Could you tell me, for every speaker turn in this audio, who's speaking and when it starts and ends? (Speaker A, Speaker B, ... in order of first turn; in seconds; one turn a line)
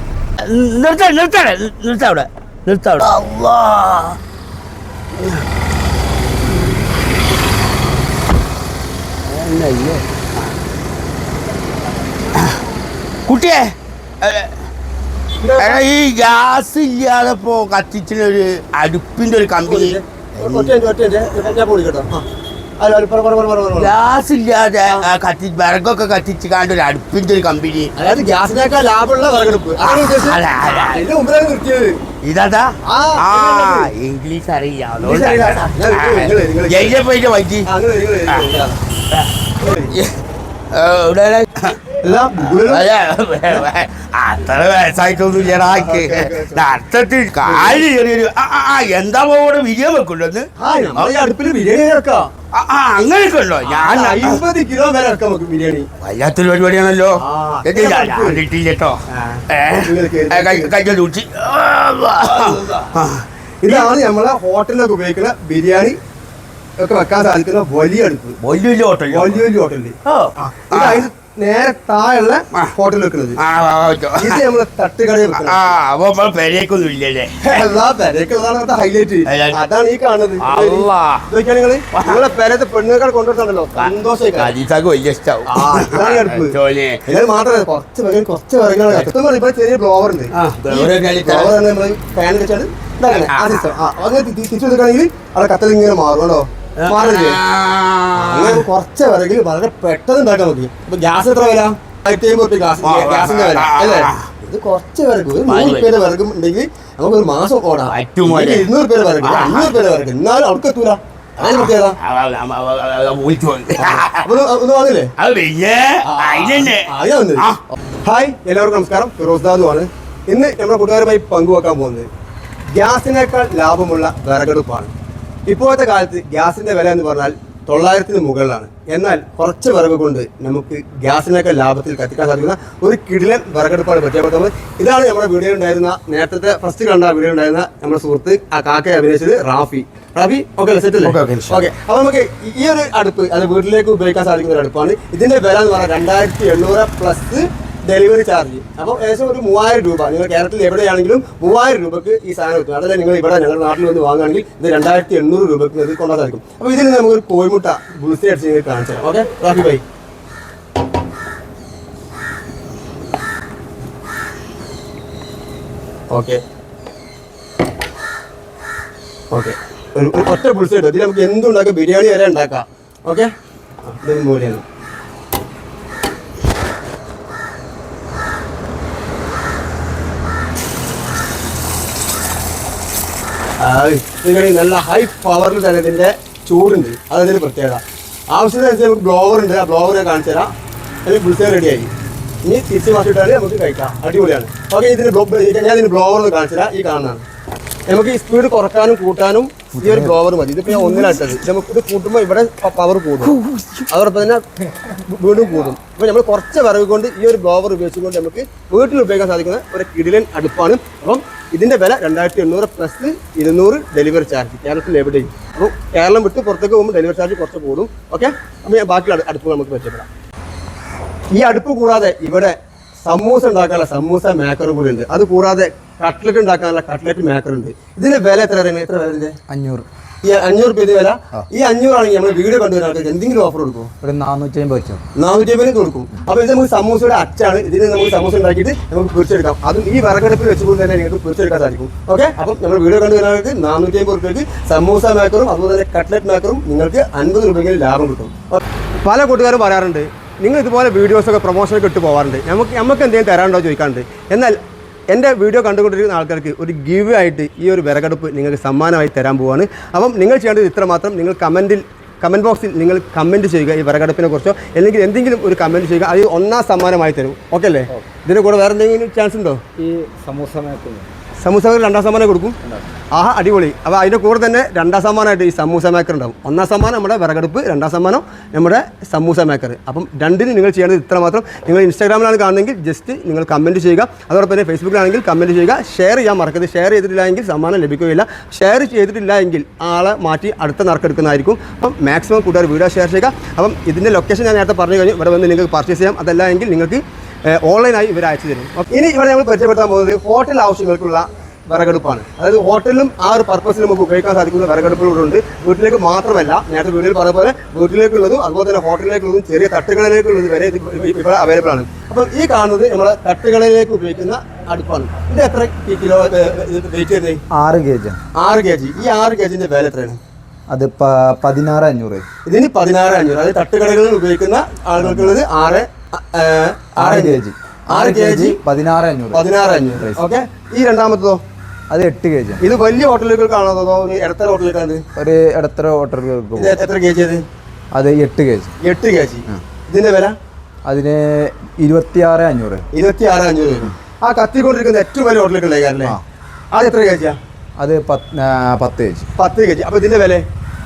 Speaker A: 0.4-4.2
Speaker A: 5.1-5.4
Speaker A: 9.2-10.1
Speaker A: 13.2-14.6
Speaker B: 15.4-15.8
Speaker A: 15.6-20.7
Speaker B: 19.6-22.2
Speaker B: 22.8-23.9
Speaker A: 23.7-27.9
Speaker B: 28.0-32.0
Speaker A: 29.8-31.0
Speaker A: 32.2-37.7
Speaker B: 32.9-33.9
Speaker B: 35.0-37.0
Speaker B: 37.6-38.8
Speaker A: 38.3-38.6
Speaker B: 39.6-40.0
Speaker A: 40.7-51.2
Speaker B: 42.0-42.9
Speaker B: 45.7-46.7
Speaker B: 47.4-47.9
Speaker B: 50.6-52.3
Speaker A: 52.5-54.4
Speaker B: 53.6-55.9
Speaker A: 56.0-59.0
Speaker B: 57.2-58.4
Speaker B: 59.1-60.7
Speaker A: 59.5-63.9
Speaker B: 62.3-62.6
Speaker B: 63.6-66.0
Speaker B: 66.8-68.3
Speaker A: 68.4-69.4
Speaker B: 69.1-73.4
Speaker A: 70.0-71.1
Speaker A: 73.4-74.4
Speaker B: 74.2-75.8
Speaker A: 75.3-77.6
Speaker B: 77.4-84.5
Speaker A: 79.2-79.6
Speaker A: 80.4-81.3
Speaker A: 81.9-82.2
Speaker A: 83.8-87.0
Speaker B: 85.5-97.4
Speaker A: 90.3-91.6
Speaker A: 93.1-93.7
Speaker A: 96.8-98.6
Speaker B: 98.1-112.0
Speaker A: 102.8-104.2
Speaker A: 105.3-106.0
Speaker A: 107.9-109.8
Speaker A: 111.4-114.3
Speaker B: 113.8-115.1
Speaker A: 115.2-117.6
Speaker B: 116.0-117.4
Speaker B: 118.0-122.1
Speaker B: 122.7-124.9
Speaker B: 125.5-159.8
Speaker A: 141.1-141.5
Speaker C: 141.3-141.6
Speaker B: 166.1-166.4
Speaker B: 169.3-173.3
Speaker B: 173.8-174.6
Speaker B: 183.6-190.5
Speaker B: 191.0-191.9
Speaker B: 192.4-197.2
Speaker B: 197.9-203.4
Speaker C: 199.7-200.1
Speaker C: 200.7-201.2
Speaker C: 203.2-203.9
Speaker B: 203.9-220.1
Speaker B: 221.3-229.4
Speaker C: 229.5-229.8
Speaker B: 230.2-233.9
Speaker C: 234.0-235.0
Speaker B: 235.2-254.6
Speaker B: 255.1-269.6
Speaker C: 269.8-271.1
Speaker B: 271.4-272.6
Speaker B: 273.1-317.4
Speaker C: 317.5-318.2
Speaker B: 318.3-320.2
Speaker C: 320.7-322.2
Speaker B: 322.4-327.4
Speaker C: 325.0-325.4
Speaker C: 327.0-330.2
Speaker B: 327.9-328.6
Speaker B: 329.3-331.4
Speaker C: 331.9-332.7
Speaker B: 332.6-335.0
Speaker C: 335.1-336.8
Speaker B: 336.6-337.4
Speaker C: 337.9-338.8
Speaker B: 338.8-340.4
Speaker C: 340.9-342.8
Speaker B: 342.9-346.1
Speaker B: 346.7-347.4
Speaker C: 347.8-349.3
Speaker B: 349.4-350.4